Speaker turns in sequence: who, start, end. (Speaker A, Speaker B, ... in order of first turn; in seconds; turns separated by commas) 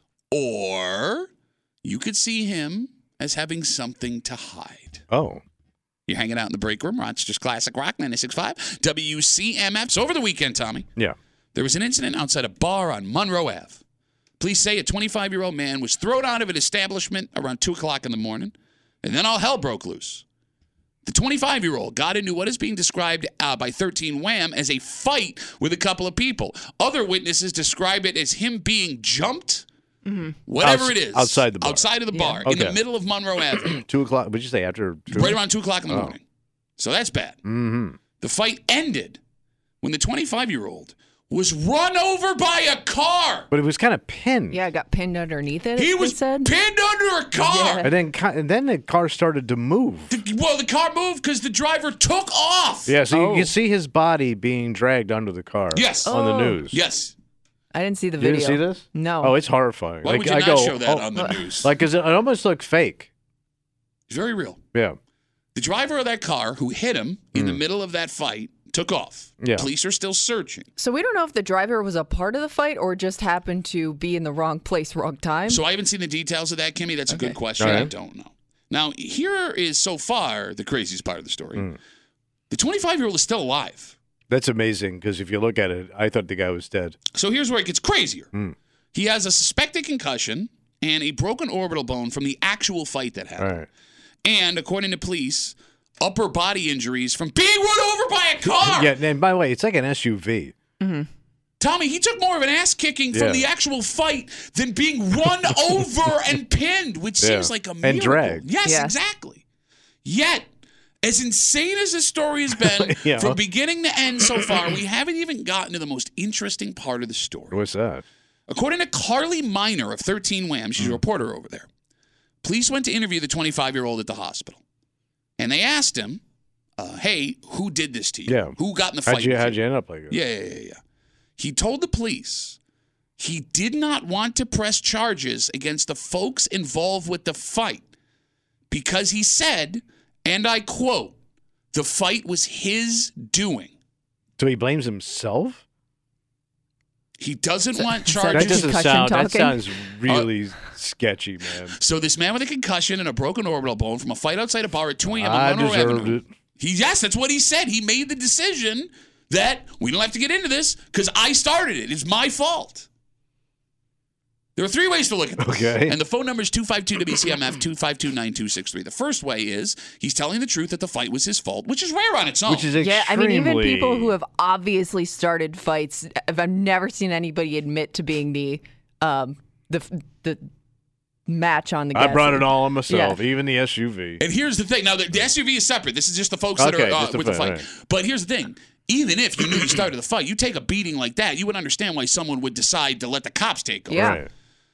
Speaker A: 0.3-1.3, Speaker A: 1.8-5.0, Speaker B: 5.1-5.4, Speaker A: 6.1-10.8, Speaker A: 11.5-13.8, Speaker A: 14.4-20.2, Speaker A: 21.0-29.6, Speaker C: 30.0-30.4, Speaker A: 30.4-33.8, Speaker B: 30.6-31.9, Speaker C: 32.1-32.4, Speaker B: 32.4-32.8, Speaker B: 33.5-36.1, Speaker A: 35.1-36.2, Speaker A: 36.8-37.4, Speaker B: 37.4-38.0, Speaker A: 38.2-39.2, Speaker A: 39.8-43.5, Speaker B: 43.5-44.6, Speaker C: 44.5-46.5, Speaker A: 45.8-47.8, Speaker C: 47.4-47.9, Speaker B: 47.8-50.1, Speaker A: 50.1-53.0, Speaker B: 52.9-56.8, Speaker C: 53.1-53.5, Speaker A: 55.7-56.1, Speaker C: 56.0-56.6, Speaker A: 56.7-57.1, Speaker C: 57.7-59.3, Speaker B: 58.2-61.1, Speaker A: 60.0-61.7, Speaker B: 61.6-63.1, Speaker A: 64.1-64.6, Speaker A: 65.5-70.7, Speaker B: 69.4-69.7, Speaker C: 70.8-75.6, Speaker A: 75.5-81.7, Speaker C: 77.1-77.9, Speaker B: 77.6-77.9, Speaker A: 82.5-84.0, Speaker B: 84.3-87.0, Speaker A: 87.1-88.3, Speaker A: 88.9-93.6, Speaker B: 93.4-93.7, Speaker A: 94.2-98.9, Speaker B: 98.6-100.5, Speaker C: 100.8-101.1, Speaker A: 101.6-109.4, Speaker B: 103.1-103.5, Speaker B: 107.2-108.4, Speaker C: 108.6-108.9, Speaker A: 110.0-110.5, Speaker A: 111.0-117.5, Speaker B: 112.5-113.4, Speaker B: 117.5-118.0, Speaker A: 118.5-121.7, Speaker A: 122.4-124.6, Speaker A: 125.4-126.2, Speaker A: 126.8-130.8, Speaker B: 128.3-128.5, Speaker B: 129.1-130.2, Speaker A: 131.4-132.6, Speaker A: 133.2-137.8, Speaker A: 138.7-141.1, Speaker A: 141.7-143.7, Speaker B: 144.4-145.6, Speaker A: 147.2-148.7, Speaker C: 147.8-149.6, Speaker B: 148.3-151.7, Speaker A: 151.8-162.9, Speaker B: 155.1-156.3, Speaker A: 164.6-172.7, Speaker B: 165.4-165.9, Speaker B: 172.4-174.1, Speaker C: 172.8-180.4, Speaker C: 181.3-183.2, Speaker B: 181.9-184.2, Speaker A: 184.2-194.1, Speaker B: 186.6-187.6, Speaker C: 193.9-194.2, Speaker B: 193.9-194.3